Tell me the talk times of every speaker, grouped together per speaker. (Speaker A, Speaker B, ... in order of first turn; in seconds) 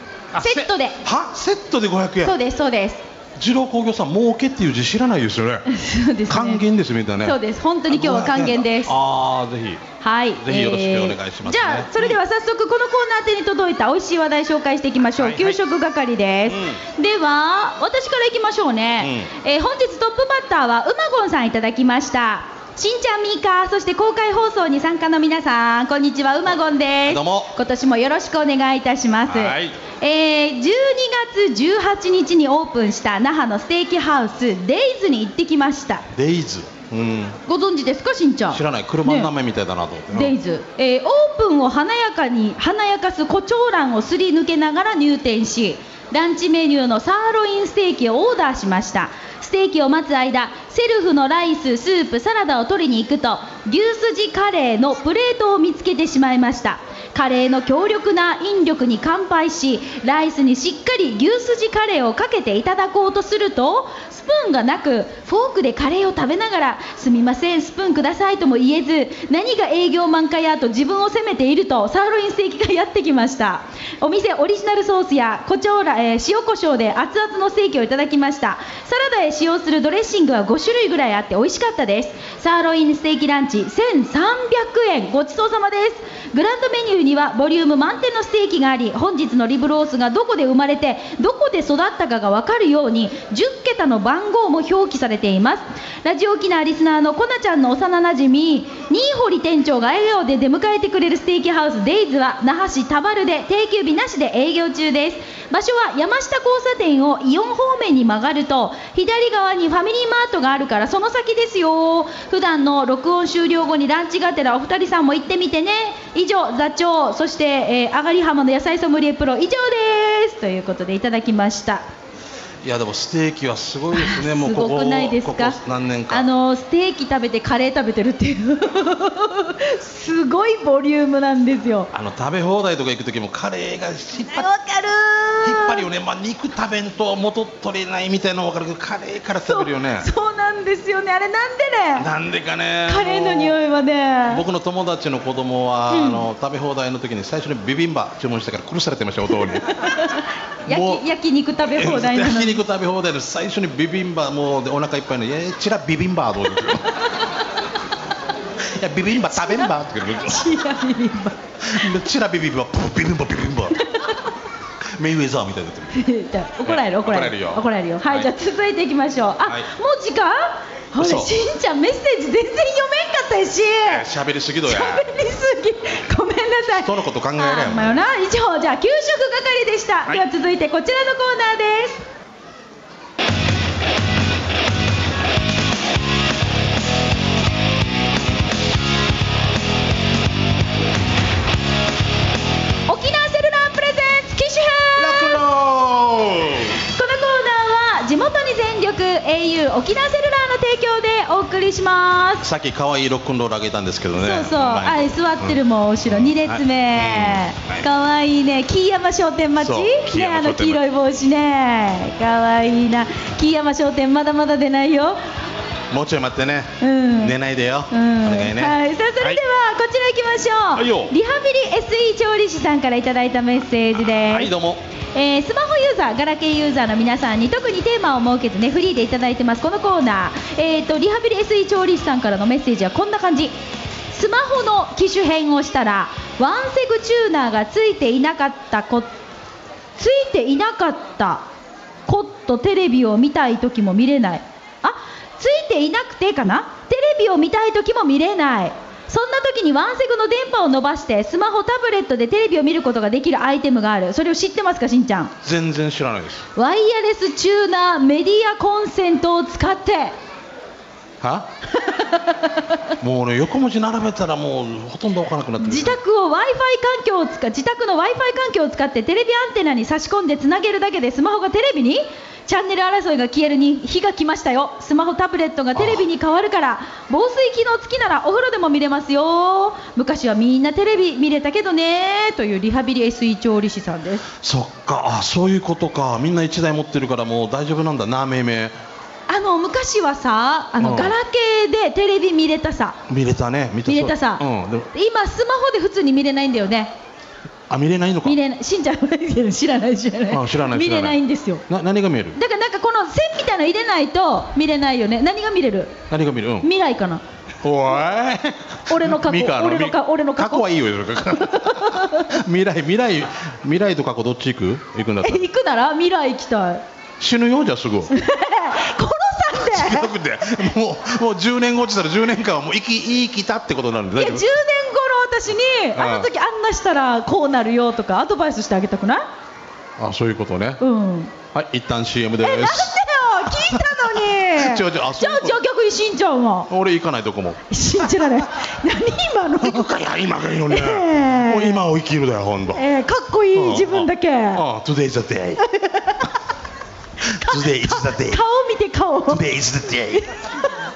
Speaker A: 0.3-2.4, 3.4-5.7, 6.3-9.8, 10.4-12.2, 15.2-15.6, 16.5-16.8, 19.0-19.3, 27.1-27.6, 29.3-29.8, 36.1-37.4, 38.5-40.4, 122.6-126.3, 131.9-134.5, 135.4-140.1, 142.0-143.6, 144.3-149.7, 150.7-151.1, 151.6-156.9, 158.6-160.5, 161.6-163.8, 165.0-165.9, 166.6-168.3, 169.4-169.7, 171.0-171.3, 173.9-175.1, 176.7-178.0, 195.0-196.8, 202.4-207.9, 209.6-210.8, 215.9-219.4, 220.7-221.1, 224.3-224.8, 255.4-256.4, 261.2-261.5, 263.0-266.0, 275.8-276.0, 284.4-288.7, 290.8-291.2, 293.1-294.9, 297.7-298.4, 300.3-302.4, 306.1-306.7, 307.6-315.5, 317.2-318.1, 319.5-324.5, 325.9-326.3, 330.0-330.8, 331.5-335.6, 336.7-337.6, 339.6-342.8, 343.5-345.6, 347.2-348.4, 349.3-350.4
Speaker B: 0.4-1.0, 2.2-3.0, 5.7-6.6, 7.2-8.9, 10.0-36.1, 37.5-39.3, 40.1-121.8, 123.9-125.6, 126.1-131.9, 134.3-135.9, 139.4-142.1, 142.9-144.4, 145.9-146.3, 149.3-152.6, 159.1-161.4, 163.8-164.3, 165.9-174.1, 174.7-182.1, 192.9-195.4, 196.9-202.4, 204.2-215.2, 216.8-217.4, 217.9-224.5, 225.1-233.6, 234.1-239.1, 240.0-241.4, 242.1-255.3, 256.6-260.1, 261.7-262.7, 265.6-284.3, 289.3-293.0, 293.9-296.9, 298.2-301.6, 302.4-306.0, 306.6-307.2, 308.9-310.7, 311.3-312.4, 315.2-316.8, 318.1-320.1, 324.1-329.3, 330.8-331.3, 332.4-336.7, 337.7-340.0, 340.6-341.8, 342.7-344.6, 345.6-346.4, 347.2-350.7